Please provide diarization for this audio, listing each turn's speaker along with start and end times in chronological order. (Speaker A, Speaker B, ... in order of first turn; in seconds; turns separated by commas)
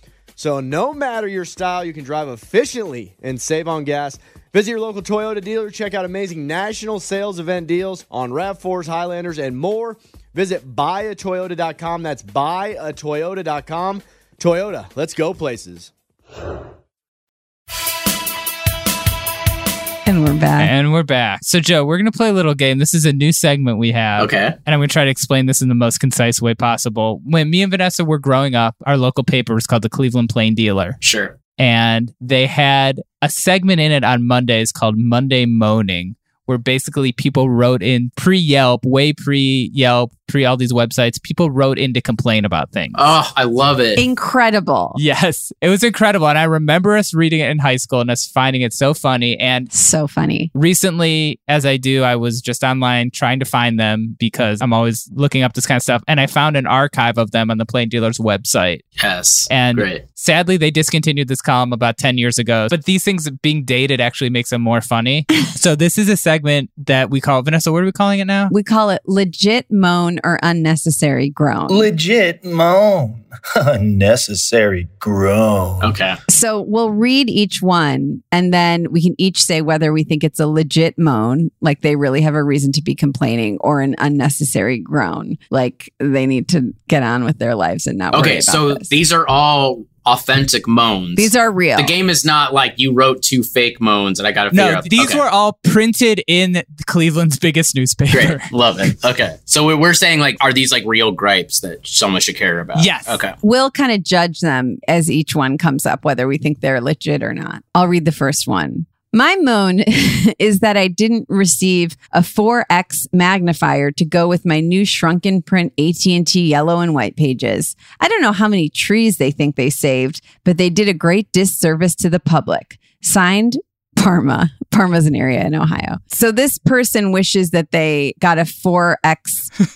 Speaker A: 0.3-15.9, Speaker B: 20.1-20.7, Speaker C: 20.6-31.0, Speaker D: 24.2-24.5, Speaker D: 31.0-31.3, Speaker C: 31.6-43.1, Speaker D: 42.9-44.0, Speaker B: 44.0-45.0, Speaker C: 45.0-49.7, Speaker B: 49.7-50.5, Speaker C: 50.5-58.8, Speaker D: 59.0-60.0, Speaker C: 59.5-68.5, Speaker B: 68.5-71.9, Speaker E: 71.7-75.9, Speaker D: 75.8-76.2, Speaker B: 76.3-88.9, Speaker D: 88.1-95.2, Speaker B: 91.2-91.9, Speaker C: 94.5-98.5, Speaker D: 98.1-103.3, Speaker C: 102.8-103.2, Speaker B: 103.4-129.5